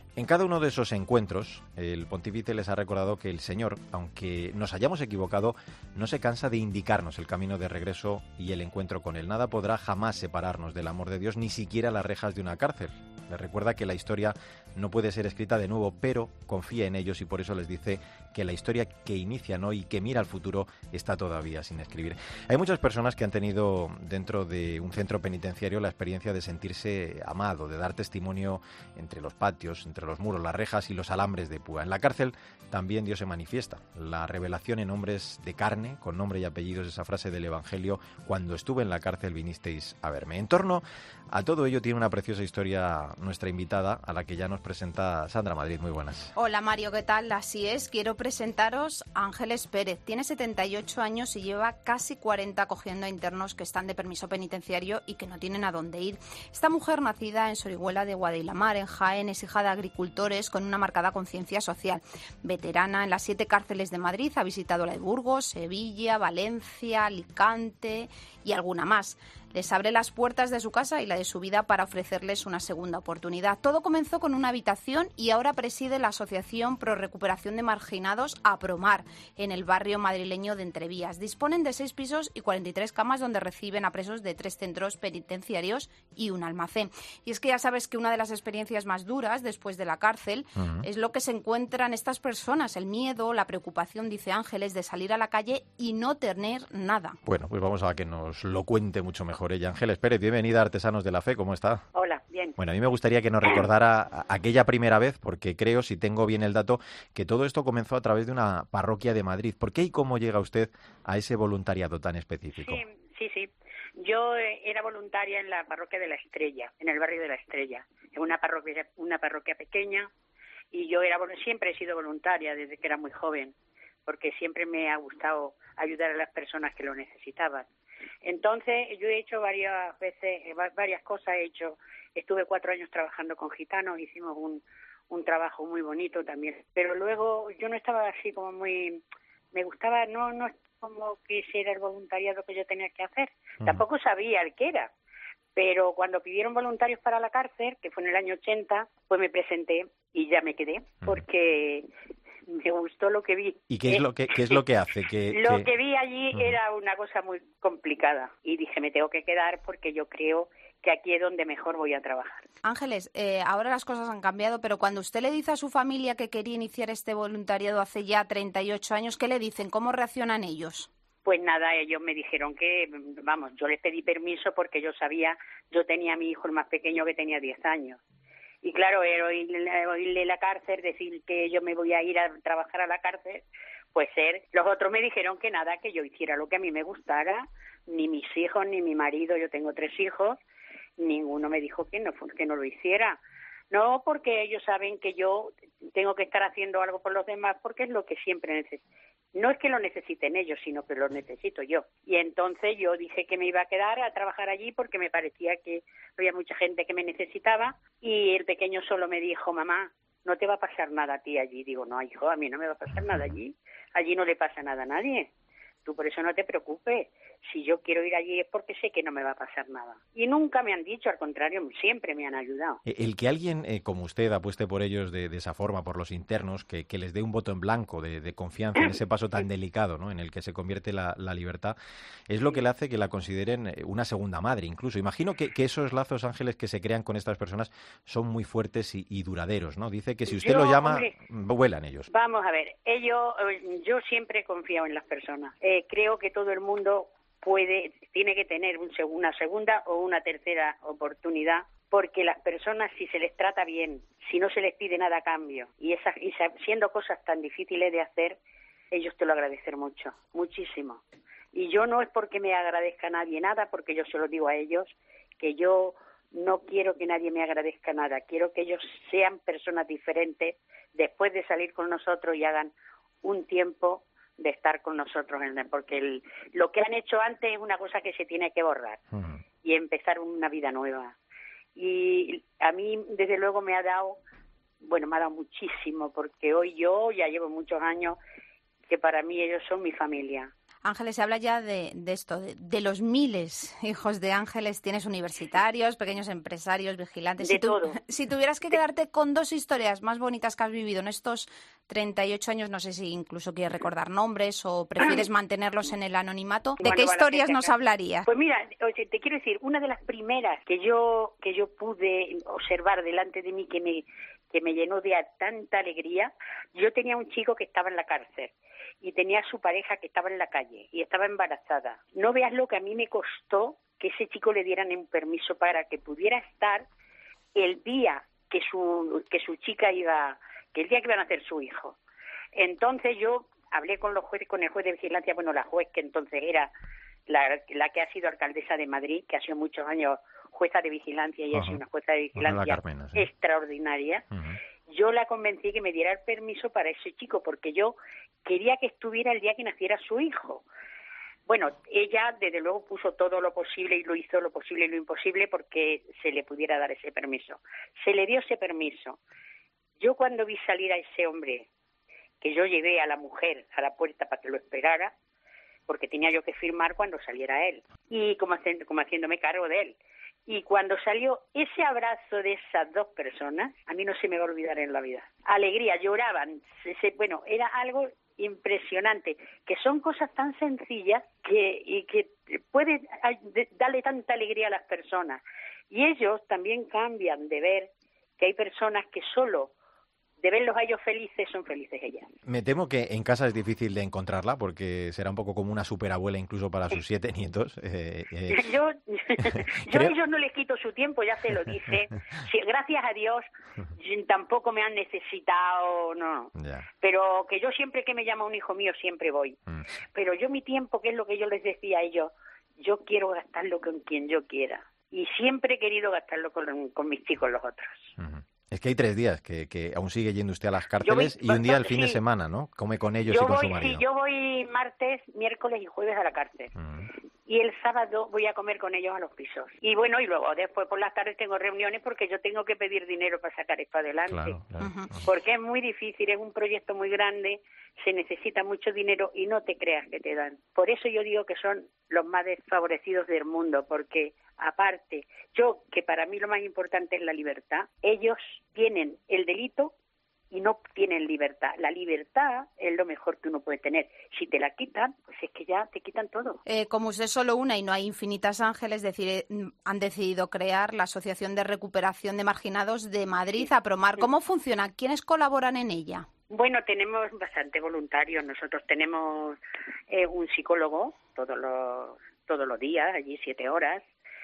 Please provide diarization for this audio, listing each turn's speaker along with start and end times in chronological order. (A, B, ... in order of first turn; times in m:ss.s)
0:00.2-0:46.3 A
0:46.4-1:37.2 B
1:30.6-1:30.9 A
1:37.2-1:41.8 A
1:42.0-1:42.6 C
1:42.6-1:52.8 A
1:52.6-2:00.1 C
2:00.7-2:03.5 C
2:04.1-2:07.7 C
2:08.2-2:19.0 C
2:19.5-2:24.9 C
2:25.6-2:31.9 C
2:32.5-2:34.6 C
2:33.7-2:35.7 A
2:35.3-2:42.5 C
2:42.6-2:50.9 B
2:51.2-2:58.0 C
2:58.6-3:10.4 C
3:11.0-3:13.2 C
3:13.7-3:18.8 C
3:19.4-3:35.3 C
3:35.9-3:42.8 C
3:42.9-3:51.8 A
3:52.3-4:02.1 A
4:00.3-4:01.1 C
4:02.1-4:18.4 C
4:18.9-4:21.0 C
4:21.5-4:32.7 C
4:33.2-4:39.0 C
4:39.1-4:39.4 A
4:39.6-4:41.1 C
4:41.8-4:44.2 C
4:44.8-4:48.2 C
4:48.9-4:50.5 C
4:50.8-5:08.3 B
4:57.4-4:58.0 C
5:06.8-5:07.7 C
5:08.3-5:26.9 C
5:27.6-5:32.0 C
5:32.5-5:36.7 C
5:37.3-5:44.2 C
5:41.5-5:41.8 A
5:42.4-5:43.3 A
5:44.3-5:44.6 A
5:44.9-5:50.6 C
5:51.5-5:59.2 C
6:00.0-6:01.7 C
6:02.4-6:05.1 C
6:05.9-6:10.0 C
6:10.5-6:29.7 C
6:30.4-6:32.3 C
6:32.5-6:38.6 A
6:38.5-6:49.6 C
6:39.4-6:40.2 A
6:46.6-6:46.9 A
6:50.1-6:58.1 C
6:58.2-7:04.0 A
7:01.0-7:02.2 C
7:03.3-7:06.7 C
7:06.8-7:07.1 A
7:07.5-7:14.6 C
7:14.3-7:15.2 A
7:14.8-7:15.1 B
7:15.2-7:29.9 C
7:30.5-7:36.6 C
7:36.7-7:46.3 B
7:43.6-7:44.3 C
7:46.5-7:49.6 C
7:50.1-7:54.0 C